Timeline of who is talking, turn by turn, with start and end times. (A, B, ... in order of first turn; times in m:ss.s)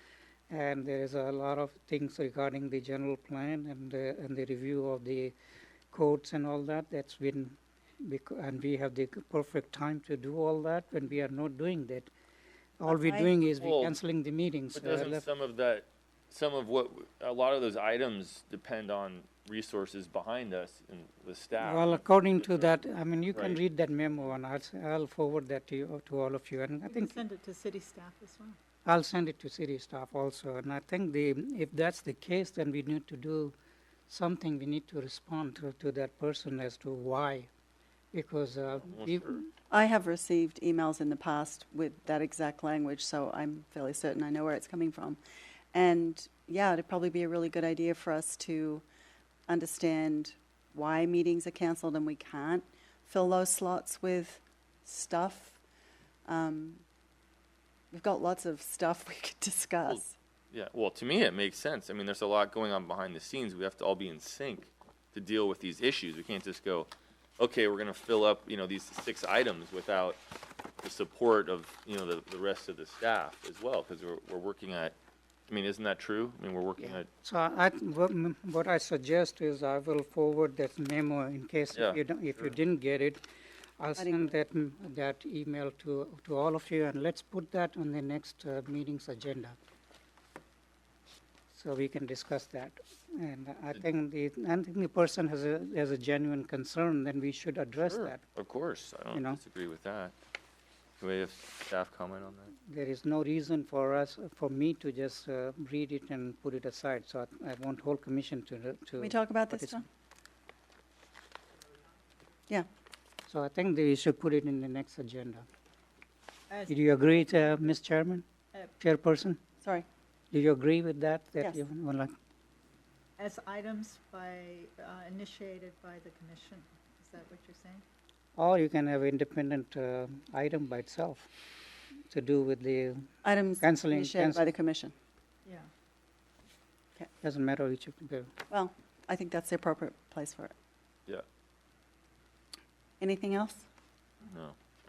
0:00.5-0:05.3 A
0:05.9-0:12.1 A
0:12.8-0:15.2 A
0:12.8-0:13.3 B
0:13.4-0:14.0 C
0:14.7-0:22.7 C
0:21.6-0:27.2 A
0:23.3-0:23.6 C
0:26.8-0:28.6 D
0:28.8-0:33.5 A
0:34.1-0:37.5 A
0:38.1-0:39.5 A
0:38.8-0:39.4 C
0:39.7-0:45.2 B
0:45.7-0:48.8 B
0:49.5-0:55.6 B
0:56.3-0:56.8 B
0:57.9-1:00.1 B
0:59.8-1:10.2 C
1:10.8-1:14.9 C
1:15.5-1:17.1 C
1:16.8-1:23.2 A
1:23.8-1:29.6 A
1:24.0-1:24.3 B
1:31.5-1:38.2 A
1:37.8-1:40.1 C
1:39.1-1:39.4 A
1:41.0-1:42.5 C
1:42.6-1:49.8 A
1:49.0-1:49.8 B
1:53.3-1:55.5 A
1:56.5-1:57.0 D
1:56.7-1:58.2 A
1:58.8-1:59.4 A
2:00.3-2:02.1 A
2:03.2-2:07.8 D
2:08.4-2:11.3 A
2:12.1-2:14.5 A
2:13.2-2:14.9 B
2:17.2-2:18.3 A
2:18.5-2:20.5 B
2:23.0-2:23.6 B
2:24.2-2:24.6 C